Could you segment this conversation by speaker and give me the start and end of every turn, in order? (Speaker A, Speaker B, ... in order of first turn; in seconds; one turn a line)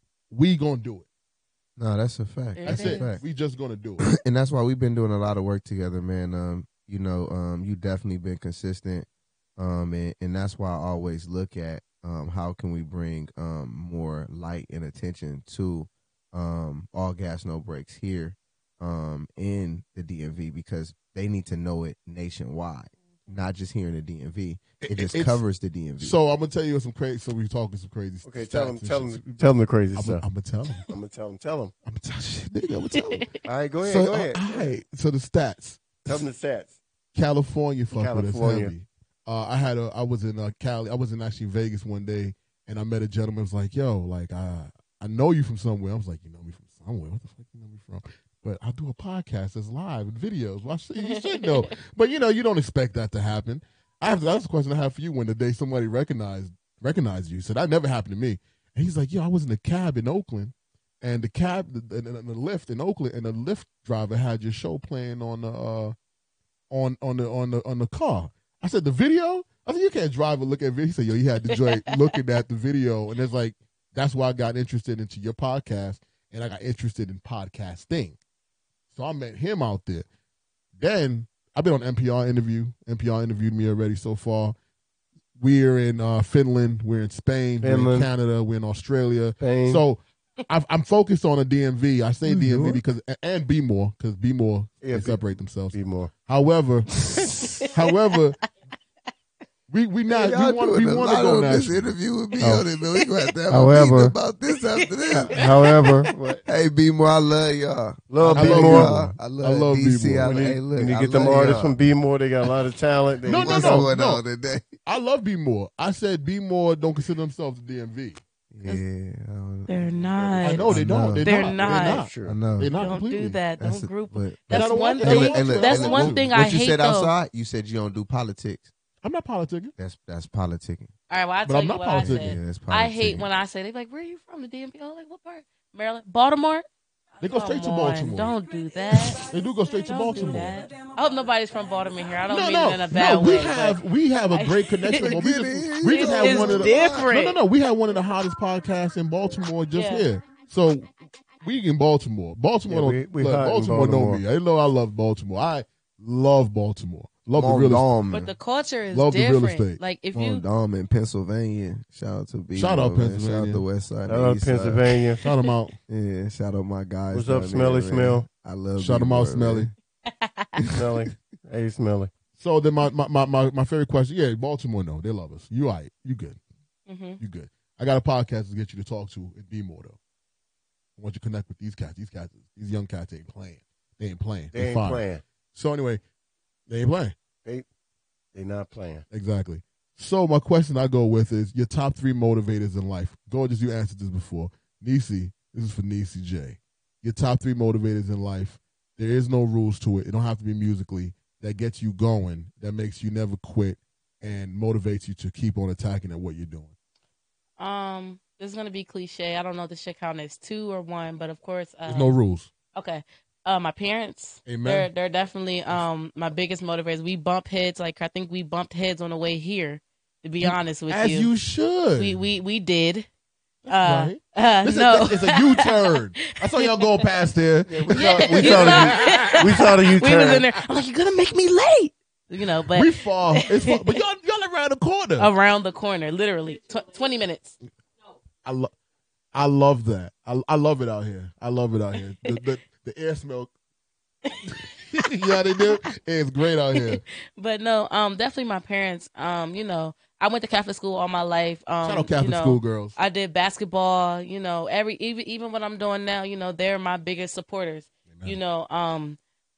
Speaker A: 0.3-1.1
Speaker B: 1.8-3.2
Speaker C: 2.6-3.1
Speaker A: 2.6-4.0
Speaker B: 4.0-26.2
Speaker A: 24.8-25.4
Speaker A: 26.0-29.4
Speaker D: 28.2-30.2
Speaker A: 29.9-30.9
Speaker D: 30.9-31.7
Speaker A: 31.9-33.3
Speaker C: 33.0-33.3
Speaker D: 33.4-34.7
Speaker A: 33.8-35.8
Speaker D: 36.0-36.8
Speaker A: 37.1-65.9
Speaker D: 37.9-38.7
Speaker C: 51.0-51.6
Speaker A: 66.7-78.2
Speaker A: 78.9-80.0
Speaker A: 80.8-84.5
Speaker A: 85.4-98.4
Speaker D: 87.6-88.1
Speaker D: 89.4-89.8
Speaker B: 92.2-92.8
Speaker D: 94.8-96.1
Speaker A: 99.7-102.7
Speaker B: 100.1-105.5
Speaker D: 103.5-104.1
Speaker D: 105.3-106.4
Speaker B: 106.5-111.8
Speaker D: 108.1-109.1
Speaker A: 108.3-110.4
Speaker D: 110.2-113.9
Speaker A: 113.2-114.2
Speaker B: 113.3-114.7
Speaker A: 114.8-118.2
Speaker B: 118.5-121.5
Speaker C: 119.7-122.0
Speaker D: 120.0-120.8
Speaker A: 120.4-123.4
Speaker D: 121.6-122.4
Speaker B: 122.2-122.8
Speaker C: 122.8-127.1
Speaker B: 123.6-128.7
Speaker A: 124.5-126.3
Speaker A: 129.0-129.7
Speaker B: 129.8-130.9
Speaker C: 131.1-136.7
Speaker A: 131.4-132.4
Speaker B: 132.0-133.3
Speaker A: 137.2-138.4
Speaker C: 137.3-139.2
Speaker A: 139.1-140.6
Speaker C: 139.9-145.1
Speaker A: 142.3-150.9
Speaker B: 144.9-147.1
Speaker C: 145.9-147.4
Speaker C: 149.7-150.1
Speaker A: 151.4-157.9
Speaker D: 152.7-154.2
Speaker B: 157.3-158.3
Speaker C: 158.1-160.4
Speaker A: 158.9-159.8
Speaker B: 160.1-164.9
Speaker A: 162.5-163.6
Speaker D: 164.1-165.2
Speaker A: 165.2-165.8
Speaker B: 165.9-169.7
Speaker D: 167.1-168.2
Speaker A: 168.8-169.7
Speaker C: 170.1-170.6
Speaker D: 170.7-172.1
Speaker A: 172.4-176.4
Speaker C: 176.9-177.2
Speaker A: 177.2-180.0
Speaker A: 181.0-186.0
Speaker D: 184.5-185.2
Speaker A: 186.7-187.1
Speaker D: 188.3-189.1
Speaker A: 189.1-206.7
Speaker C: 207.6-212.1
Speaker A: 211.9-212.5
Speaker C: 212.7-221.3
Speaker A: 214.4-214.9
Speaker A: 220.4-222.2
Speaker C: 222.0-223.1
Speaker A: 223.7-229.5
Speaker C: 223.7-226.8
Speaker D: 227.7-230.4
Speaker C: 227.9-233.8
Speaker A: 232.7-235.3
Speaker C: 235.2-237.6
Speaker A: 238.4-238.7
Speaker A: 239.3-243.5
Speaker A: 244.9-247.0
Speaker C: 246.7-259.2
Speaker A: 251.8-252.9
Speaker A: 258.1-258.4